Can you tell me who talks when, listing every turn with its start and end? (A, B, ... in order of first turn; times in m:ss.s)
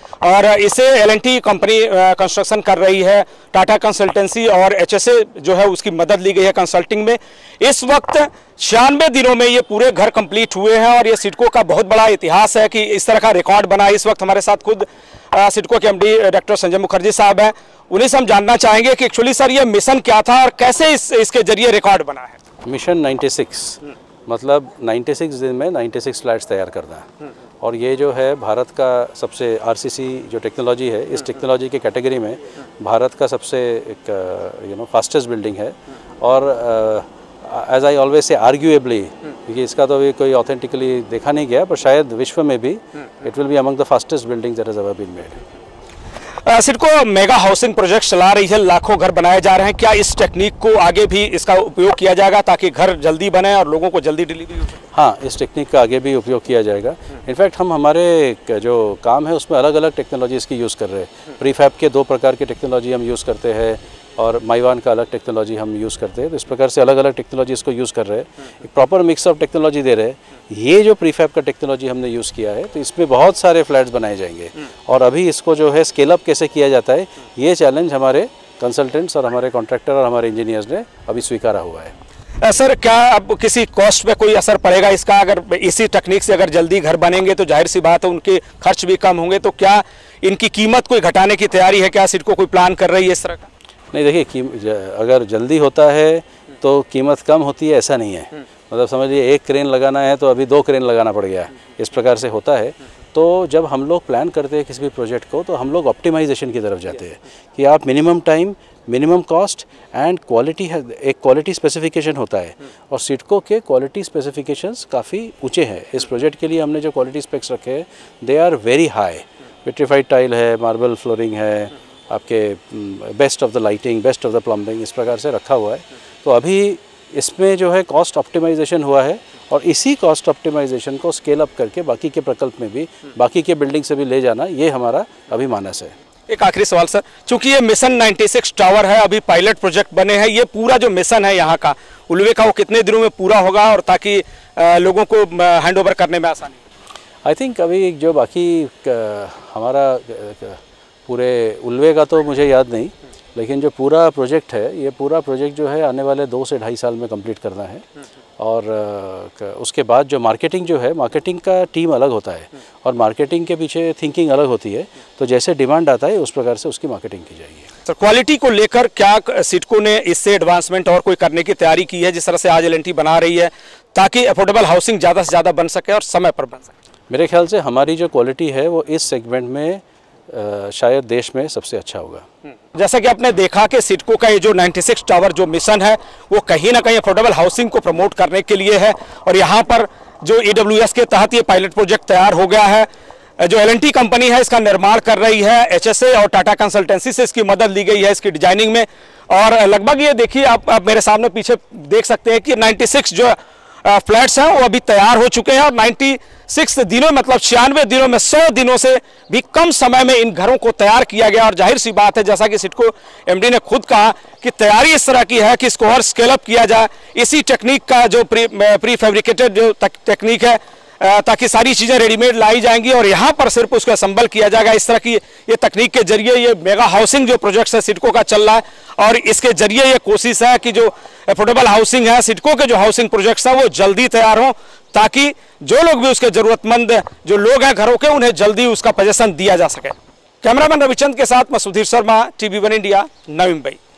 0:00.2-0:22.4 A
0:22.6-0:27.1 B
0:27.6-0:45.4 B
0:46.4-0:54.8 A
0:54.9-1:21.9 B
1:22.4-1:33.5 A
1:33.9-2:15.9 B
2:16.3-2:26.6 A
2:27.2-2:37.8 B
2:38.4-2:47.7 B
2:47.9-2:56.7 A
2:57.1-3:02.2 B
3:02.8-3:12.9 A
3:13.4-4:03.8 A